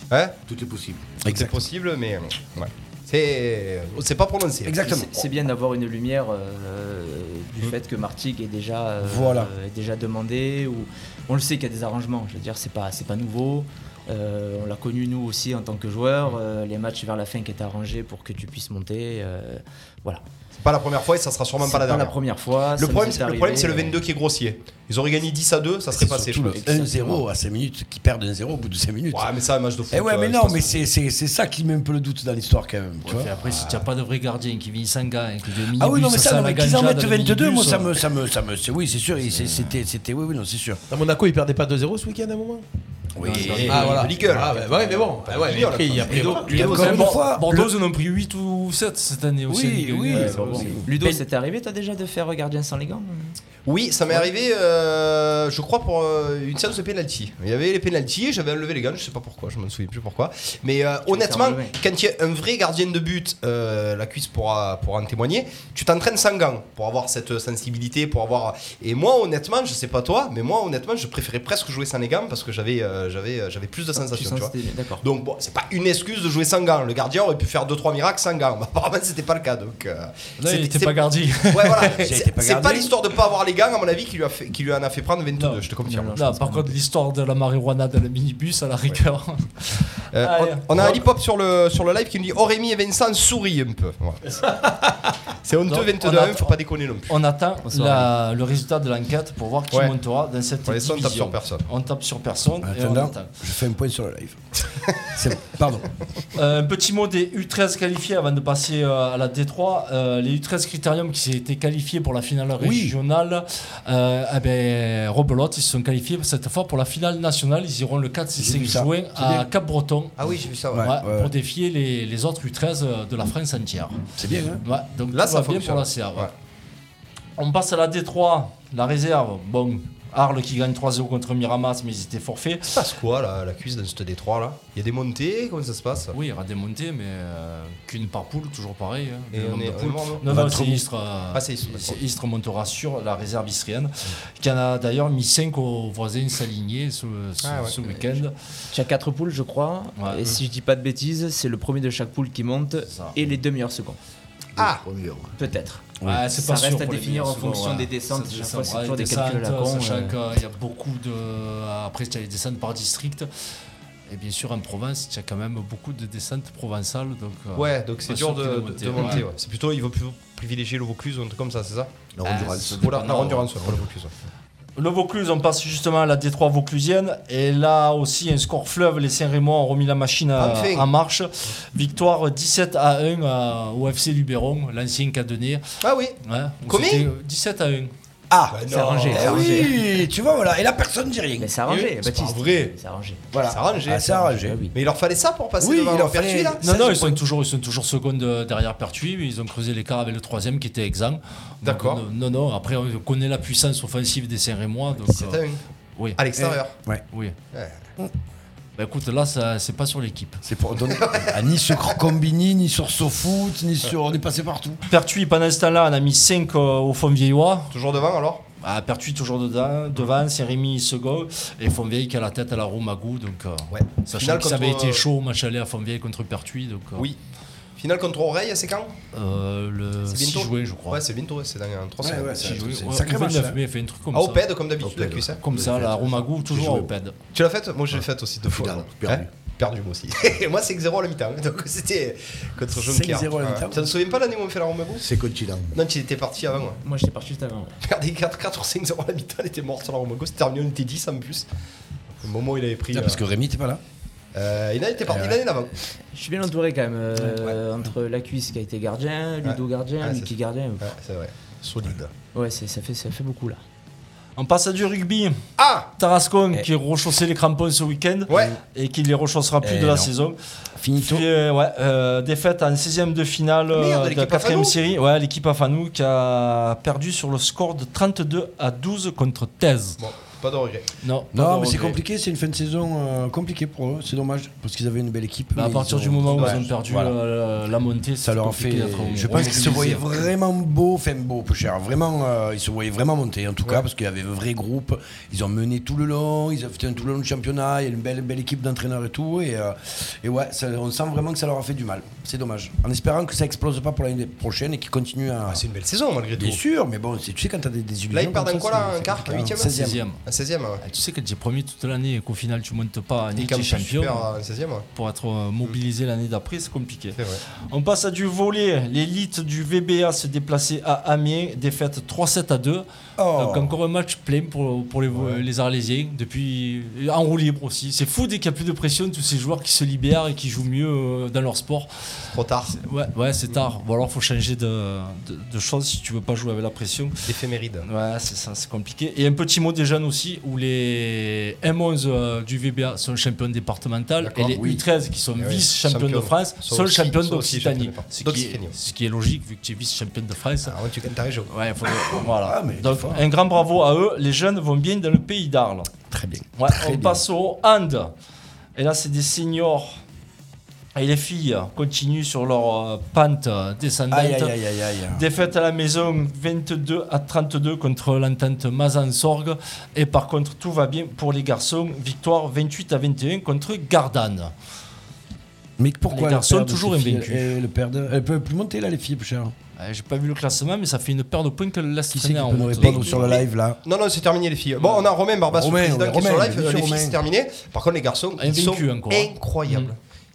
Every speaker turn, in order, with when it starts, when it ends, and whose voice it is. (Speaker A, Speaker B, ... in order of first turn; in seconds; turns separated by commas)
Speaker A: 0.5-1.2, Speaker B: 1.2-1.6, Speaker C: 1.2-4.9, Speaker B: 4.6-5.2, Speaker D: 4.8-20.2, Speaker B: 9.0-9.5, Speaker C: 20.6-22.2, Speaker D: 21.6-24.0, Speaker C: 22.8-26.7, Speaker B: 25.9-29.3, Speaker D: 26.5-27.2, Speaker C: 29.1-30.8, Speaker B: 29.9-33.8, Speaker E: 33.0-38.0, Speaker B: 35.8-40.8, Speaker E: 39.3-39.8, Speaker F: 40.9-42.6, Speaker B: 43.2-44.1, Speaker E: 43.2-44.0, Speaker C: 43.4-47.2, Speaker F: 43.7-46.9, Speaker B: 46.4-47.7, Speaker E: 46.5-50.7, Speaker B: 49.5-50.9, Speaker D: 50.1-53.4, Speaker C: 53.7-86.2, Speaker D: 61.1-61.8, Speaker D: 74.0-75.0, Speaker E: 80.4-81.9, Speaker B: 81.8-82.9, Speaker E: 85.4-85.6, Speaker D: 85.8-86.8, Speaker E: 86.1-91.0, Speaker C: 90.1-94.2, Speaker C: 95.4-97.1, Speaker E: 95.7-103.3, Speaker C: 100.7-101.7, Speaker B: 102.6-105.9, Speaker E: 106.3-120.2, Speaker B: 112.6-113.0, Speaker B: 118.4-119.5, Speaker C: 120.2-120.9, Speaker B: 120.7-121.3, Speaker E: 120.8-124.0, Speaker B: 124.2-124.6, Speaker E: 124.6-126.3, Speaker C: 125.1-126.3, Speaker E: 127.4-132.7, Speaker C: 132.7-136.2, Speaker E: 136.1-148.3, Speaker C: 139.3-140.3, Speaker B: 140.2-140.8, Speaker C: 141.3-142.0, Speaker C: 147.4-147.8, Speaker D: 148.7-154.0, Speaker E: 150.0-150.2, Speaker E: 152.9-153.2, Speaker A: 154.6-155.3, Speaker C: 154.6-154.8, Speaker D: 155.4-160.2, Speaker E: 156.0-163.3, Speaker E: 164.1-169.2, Speaker C: 167.6-171.9, Speaker A: 172.1-172.8, Speaker E: 172.2-173.5, Speaker C: 172.7-174.1, Speaker E: 174.8-185.6, Speaker C: 180.4-180.9, Speaker C: 185.8-186.2, Speaker E: 186.2-187.9, Speaker C: 186.7-187.1, Speaker B: 188.3-191.6, Speaker C: 188.5-189.7, Speaker D: 188.7-189.8, Speaker D: 191.4-193.3, Speaker C: 192.0-192.8, Speaker B: 193.3-194.6, Speaker C: 193.4-196.9, Speaker D: 194.2-194.8, Speaker B: 195.6-197.2, Speaker E: 196.6-205.4, Speaker C: 201.6-202.0, Speaker C: 205.1-205.6, Speaker C: 206.2-206.7, Speaker B: 206.4-207.0, Speaker E: 208.8-210.4, Speaker B: 210.4-214.8, Speaker C: 210.9-212.0, Speaker E: 214.9-217.7, Speaker C: 217.7-218.4, Speaker E: 218.6-227.1, Speaker C: 223.7-225.0, Speaker C: 227.8-228.9, Speaker E: 229.1-231.0, Speaker C: 230.1-232.8, Speaker B: 232.0-233.6, Speaker E: 232.4-234.5, Speaker C: 234.1-235.4, Speaker A: 234.8-236.9, Speaker E: 235.4-237.2, Speaker C: 237.3-245.1, Speaker A: 238.5-239.3, Speaker B: 242.7-243.9, Speaker A: 245.0-245.8, Speaker C: 245.7-246.8, Speaker D: 246.8-247.8, Speaker C: 247.8-251.5, Speaker C: 252.2-253.2, Speaker B: 252.9-253.8, Speaker C: 254.3-255.8, Speaker B: 255.1-255.3, Speaker D: 256.1-260.9, Speaker B: 257.2-257.6, Speaker C: 259.4-262.1, Speaker D: 262.3-263.6, Speaker E: 264.4-265.4, Speaker C: 265.6-265.9, Speaker E: 266.0-270.4, Speaker C: 268.3-268.6, Speaker B: 269.6-270.1, Speaker B: 270.8-271.3, Speaker E: 270.9-280.0, Speaker C: 273.7-274.8, Speaker C: 280.0-280.9, Speaker E: 281.0-282.0, Speaker B: 281.3-287.2, Speaker E: 285.6-290.1, Speaker C: 286.4-286.6, Speaker B: 288.2-305.6, Speaker C: 305.5-306.6, Speaker B: 306.4-310.0, Speaker C: 308.1-310.8, Speaker E: 309.6-310.2, Speaker E: 310.8-314.3, Speaker C: 313.4-314.9, Speaker E: 314.9-317.2, Speaker E: 317.7-331.9, Speaker B: 323.2-323.8, Speaker C: 332.3-332.8, Speaker E: 332.7-337.1, Speaker C: 337.3-337.9, Speaker E: 337.8-350.8, Speaker C: 344.2-344.5, Speaker B: 344.5-344.8, Speaker C: 345.4-348.7, Speaker C: 350.6-351.5, Speaker E: 351.5-355.9, Speaker B: 352.0-353.2, Speaker B: 356.1-357.2, Speaker E: 356.6-358.1, Speaker E: 358.8-360.0, Speaker E: 360.9-364.6, Speaker B: 364.1-365.2, Speaker E: 365.1-374.5, Speaker B: 375.8-379.5, Speaker E: 376.1-377.5, Speaker E: 379.8-383.2, Speaker B: 382.1-383.8, Speaker C: 382.8-390.0, Speaker E: 384.8-385.1, Speaker B: 385.5-387.2, Speaker E: 388.4-389.9